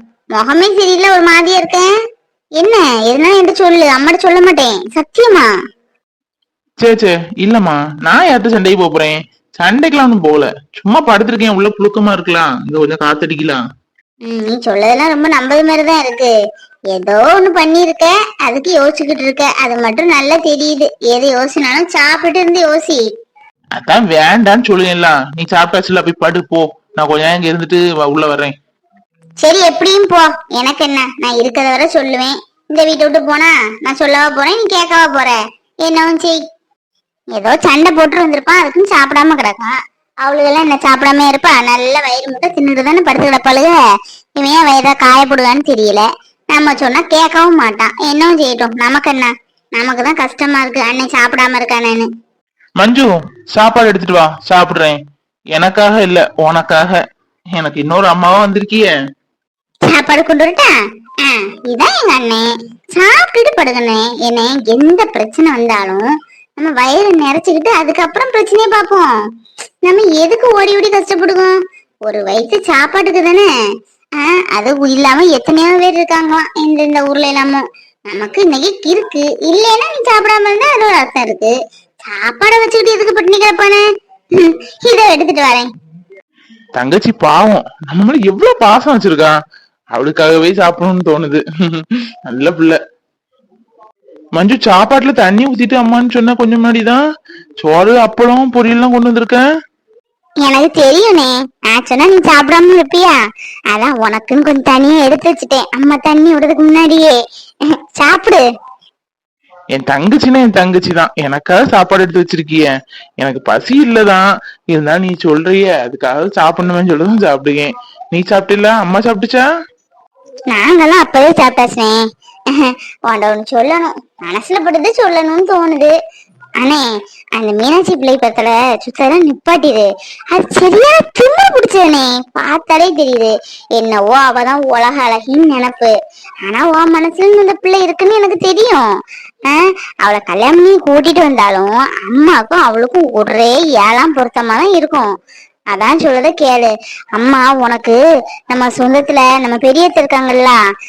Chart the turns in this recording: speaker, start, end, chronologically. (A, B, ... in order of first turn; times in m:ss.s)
0:00.3-0:01.9 A
0:02.6-0:05.5 A
0:06.8-0:13.6 B
0:14.3-0:16.3 A
0:16.9-0:23.1 A
0:23.8-0:28.5 B
0:29.4-0:36.4 A
0:37.3-0:43.8 A
0:44.4-0:52.1 A
0:52.8-0:55.0 B
0:55.5-0:57.0 B
0:57.6-0:58.9 B
0:59.9-1:06.0 A
1:06.6-1:09.1 A
1:09.8-1:11.6 A
1:12.1-1:13.5 A
1:14.2-1:21.6 A
1:22.1-1:23.8 A
1:24.4-1:25.7 A
1:26.8-1:29.4 B
1:29.9-1:32.8 B
1:34.4-1:37.0 B
1:37.6-1:39.4 B
1:40.4-1:43.2 A
1:43.7-1:47.2 A
1:48.0-1:48.4 A
1:49.8-1:52.7 B
1:53.2-1:59.4 B
2:00.5-2:02.0 A
2:02.5-2:05.9 A
2:06.6-2:06.9 A
2:07.4-2:15.9 A
2:16.4-2:18.9 A
2:19.5-2:25.1 A
2:25.7-2:28.0 A
2:28.5-2:30.6 A